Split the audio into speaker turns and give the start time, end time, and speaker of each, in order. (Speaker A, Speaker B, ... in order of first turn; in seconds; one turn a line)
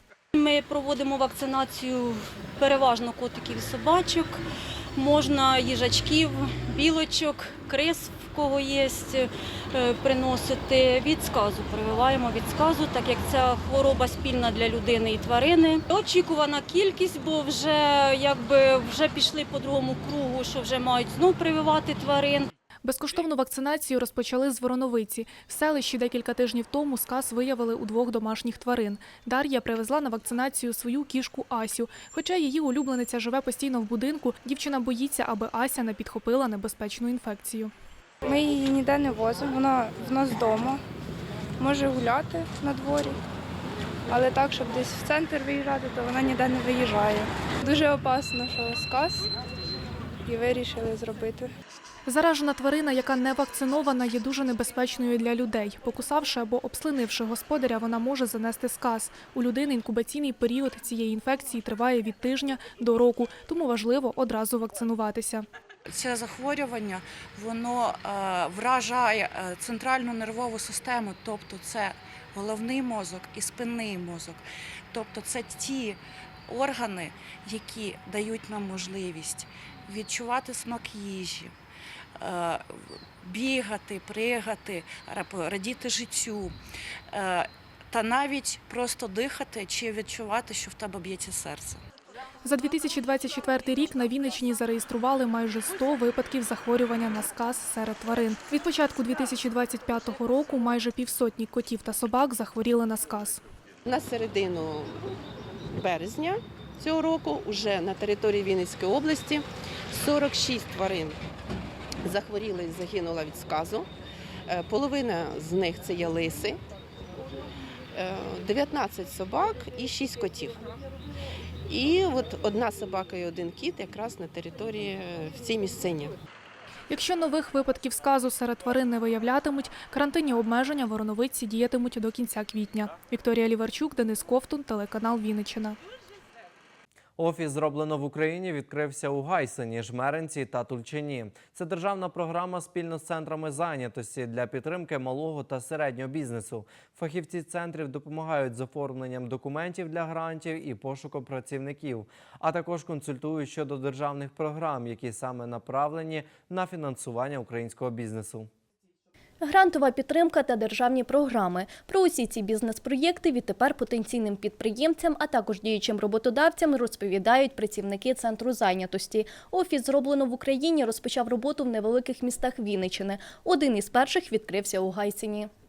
Speaker A: 0.3-4.4
Speaker A: 5.0-22.5
Speaker B: 22.8-37.7
Speaker C: 38.2-40.8
Speaker C: 41.6-43.2
Speaker C: 44.1-49.3
Speaker C: 50.2-51.5
Speaker B: 52.0-65.5
Speaker D: 65.8-81.5
Speaker D: 82.2-86.5
Speaker D: 87.1-91.8
Speaker B: 92.4-103.4
Speaker E: 103.8-105.1
Speaker E: 105.7-111.2
Speaker E: 112.0-113.9
Speaker E: 114.5-116.6
Speaker E: 117.9-120.5
Speaker E: 121.7-126.1
Speaker B: 126.9-135.8
Speaker F: 137.2-158.5
Speaker G: 159.4-175.5